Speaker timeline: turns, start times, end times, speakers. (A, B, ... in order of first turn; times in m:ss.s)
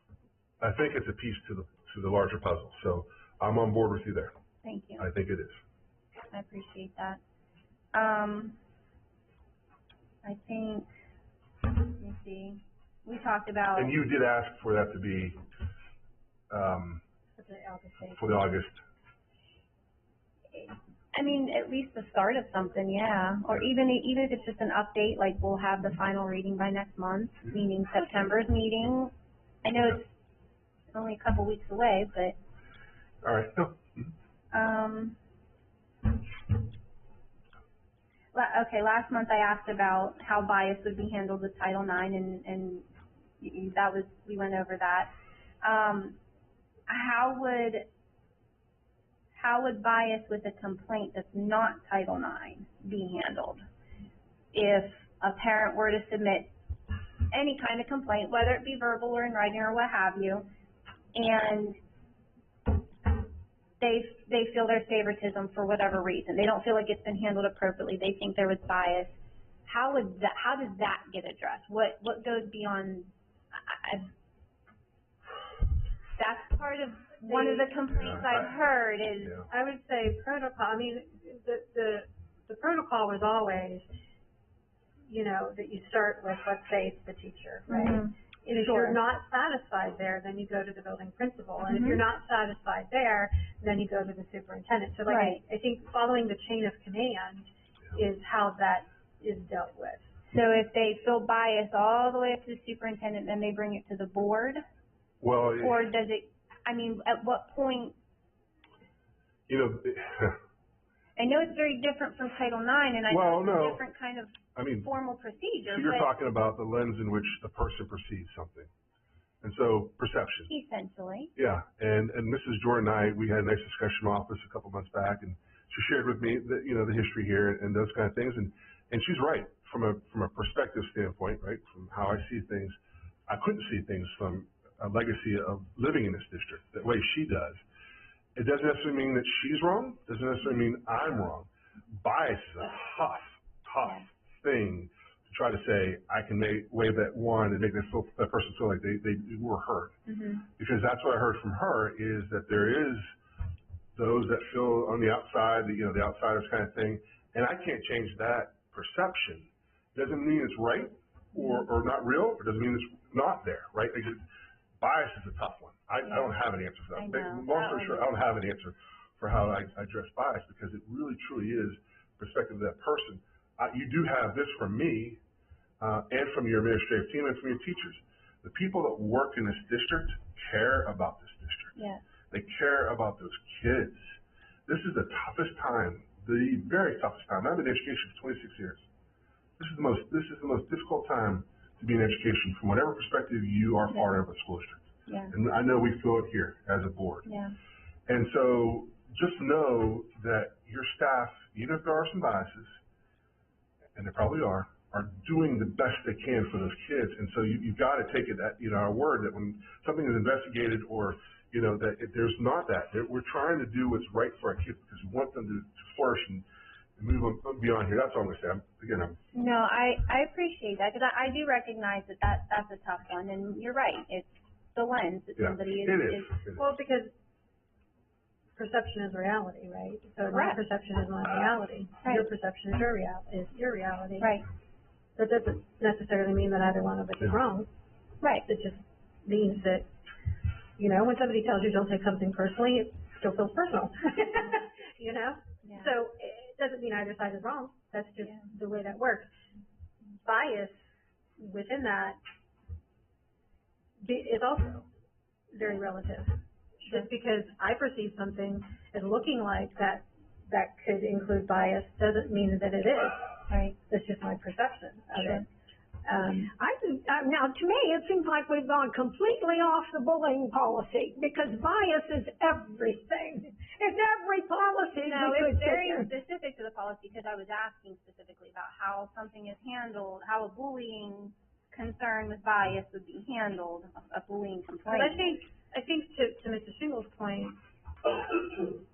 0:00.6-0:04.3 A
0:04.6-0:05.1 B
0:05.0-0:05.6 A
0:06.3-0:07.2 B
0:07.9-0:08.6 B
0:10.2-0:10.9 B
0:11.6-0:13.9 B
0:13.8-0:15.4 A
0:16.5-0:17.0 A
0:17.4-0:18.5 C
0:18.1-0:18.8 A
0:20.5-0:29.1 B
0:29.6-0:30.1 B
0:30.9-0:32.4 B
0:33.2-0:34.1 A
0:34.5-0:35.2 B
0:38.3-0:42.9 B
0:43.4-0:46.2 B
0:46.9-0:47.9 B
0:49.4-0:53.6 B
0:54.5-0:56.5 B
0:57.3-1:00.5 B
1:01.2-1:01.8 B
1:03.8-1:14.1 B
1:16.2-1:19.4 B
1:17.2-1:17.7 C
1:17.9-1:18.5 A
1:19.2-1:19.5 A
1:19.5-1:23.9 C
1:25.1-1:40.1 C
1:27.7-1:29.0 B
1:31.6-1:32.0 B
1:35.1-1:35.4 B
1:40.3-1:44.6 B
1:45.2-1:45.8 A
1:45.6-1:48.0 B
1:49.5-1:50.4 A
1:51.2-1:56.1 B
1:53.1-1:53.8 A
1:54.6-1:54.9 A
1:55.7-1:58.7 A
1:59.4-2:00.5 A
2:00.5-2:01.3 B
2:01.4-2:17.6 A
2:18.4-2:30.0 A
2:30.1-2:30.4 B
2:30.6-2:33.1 A
2:34.0-2:44.2 A
2:44.8-2:55.2 A
2:46.1-2:46.3 B
2:47.0-2:48.1 B
2:55.8-3:01.8 A
3:01.8-3:02.0 B
3:02.3-3:08.9 A
3:09.6-3:17.3 A
3:15.1-3:15.3 B
3:17.3-3:17.6 B
3:18.1-3:22.8 A
3:24.0-3:36.4 A
3:37.0-3:39.2 A
3:39.3-3:46.4 B
3:45.4-3:46.6 A
3:46.6-3:47.1 C
3:48.6-3:54.4 C
3:50.3-3:50.6 B
3:54.2-3:54.4 B
3:55.2-3:57.7 C
3:58.5-3:59.9 C
4:00.8-4:09.3 C
4:05.6-4:05.9 B
4:10.2-4:10.8 C
4:11.4-4:12.2 C
4:14.0-4:14.9 C
4:15.5-4:23.3 C
4:23.5-4:23.8 B
4:23.9-4:25.5 C
4:25.2-4:25.4 B
4:26.0-4:26.5 C
4:26.5-4:36.1 D
4:35.0-4:45.4 B
4:44.9-4:48.6 C